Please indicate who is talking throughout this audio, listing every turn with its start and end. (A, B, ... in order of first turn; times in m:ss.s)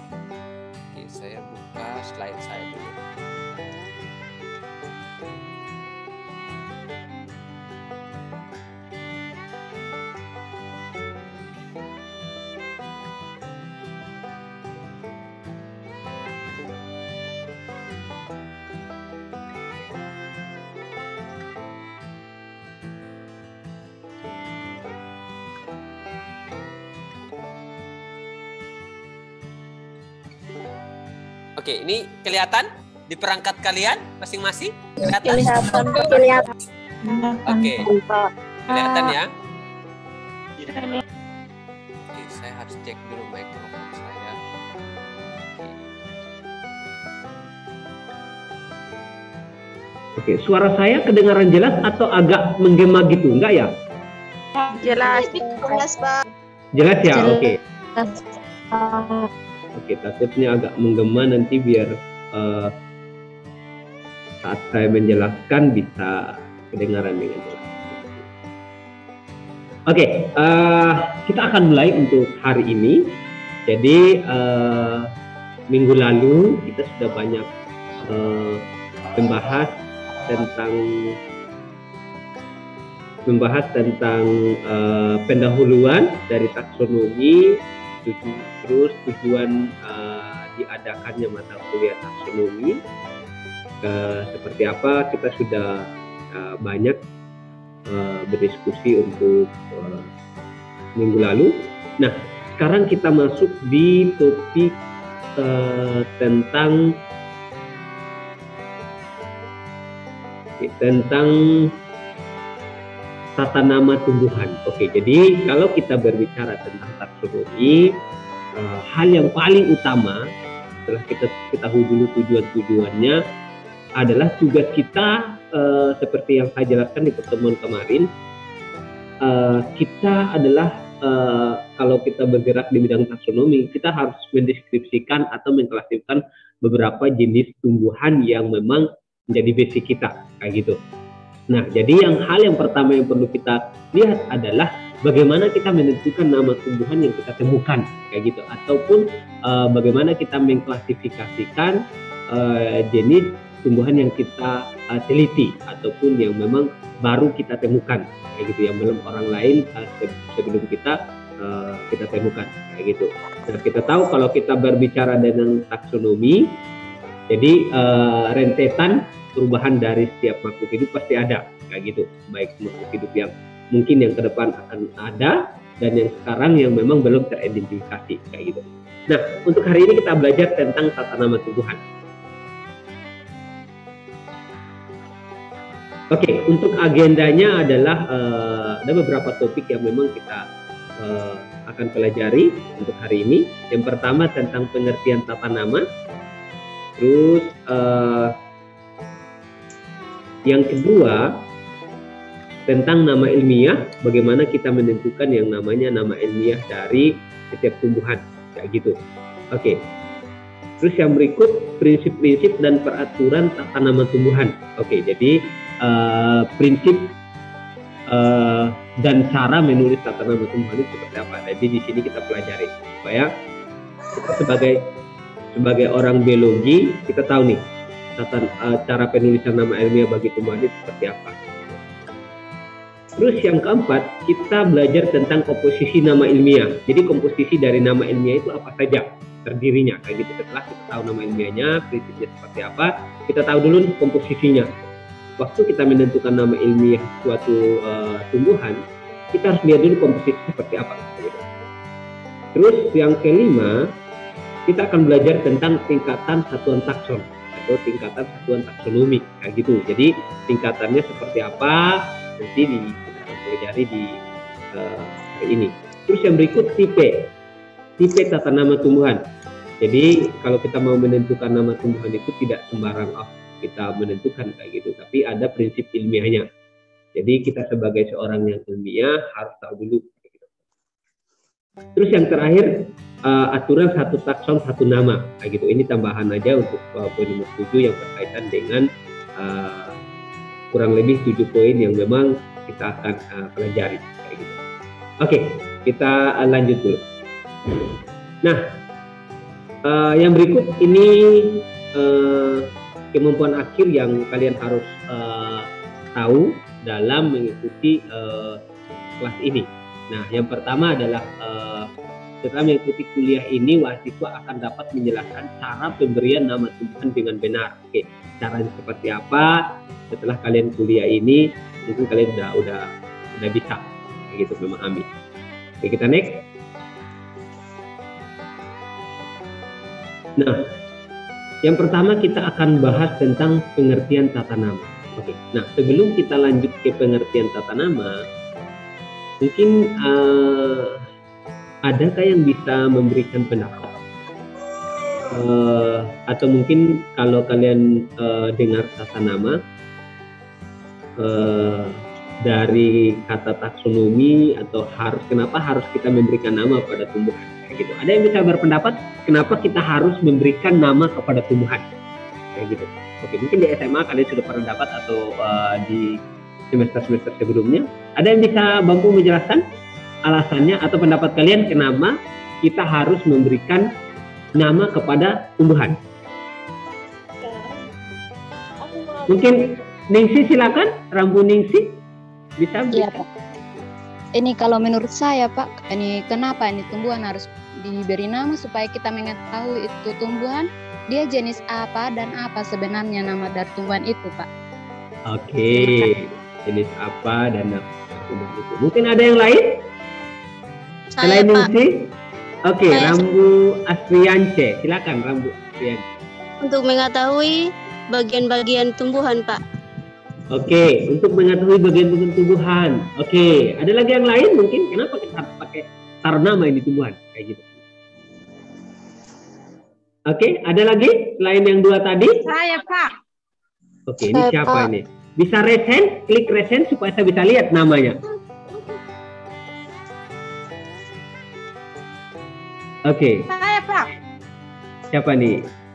0:00.9-0:03.0 A
0:31.6-0:35.5 A
0:35.2-0:36.4 B
0:35.3-0:36.3 C
0:37.1-0:37.7 C
0:37.2-0:38.1 B
0:37.4-0:37.8 A
0:38.7-0:39.2 C
0:38.7-0:39.2 A
0:40.7-0:41.0 C
0:42.1-0:44.4 A
0:45.5-0:45.8 A
0:50.2-0:53.7 D
0:54.7-0:55.8 C
0:54.7-0:56.2 B
0:56.8-0:57.6 D
0:59.8-1:02.7 D
1:04.4-1:08.2 D
1:09.9-1:13.1 D
1:13.7-1:15.0 D
1:15.7-1:17.5 D
1:18.0-1:21.1 D
1:23.3-1:32.8 D
1:33.8-1:37.0 D
1:37.9-1:40.1 D
1:41.0-1:44.7 D
1:45.4-1:46.8 D
1:50.6-1:51.7 D
1:53.4-1:58.0 D
1:58.6-2:00.2 D
2:00.9-2:03.2 D
2:04.0-2:08.1 D
2:09.2-2:20.8 D
2:21.5-2:31.8 D
2:32.3-2:46.6 D
2:47.3-3:01.8 D
3:06.1-3:10.4 D
3:11.0-3:15.9 D
3:17.0-3:18.3 D
3:20.5-3:21.4 D
3:22.7-3:29.0 D
3:29.5-3:29.8 D
3:30.8-3:37.1 D
3:38.1-3:43.3 D
3:44.1-3:44.8 D
3:45.5-3:47.6 D
3:48.2-3:51.8 D
3:53.2-4:04.7 D
4:05.4-4:08.8 D
4:09.3-4:11.4 D
4:12.5-4:13.8 D
4:14.7-4:24.2 D
4:24.7-4:27.3 D
4:28.0-4:29.2 D
4:29.8-4:36.4 D
4:37.2-4:40.5 D
4:42.0-4:50.0 D
4:50.7-4:54.6 D
4:55.2-4:57.0 D
4:59.8-5:08.6 D
5:09.2-5:11.9 D
5:12.4-5:22.8 D
5:23.4-5:25.1 D
5:25.8-5:26.4 D
5:31.6-5:38.2 D
5:39.4-5:41.0 D
5:41.8-5:44.0 D
5:45.3-5:49.6 D
5:51.2-6:01.8 D
6:02.6-6:06.2 D
6:06.7-6:09.6 D
6:10.3-6:13.9 D
6:14.6-6:16.0 D
6:19.3-6:22.0 D
6:22.6-6:23.2 D
6:22.9-6:23.2 E
6:24.3-6:34.5 E
6:35.3-6:39.8 D
6:35.7-6:36.0 E
6:41.2-6:41.7 B
6:41.2-6:42.1 D
6:42.7-6:46.0 D
6:42.9-6:43.2 B
6:46.6-6:49.6 B
6:50.5-6:57.7 D
7:00.3-7:02.4 D
7:02.4-7:03.1 C
7:04.1-7:08.2 D
7:13.1-7:13.5 D
7:13.5-7:14.1 C
7:15.1-7:15.6 D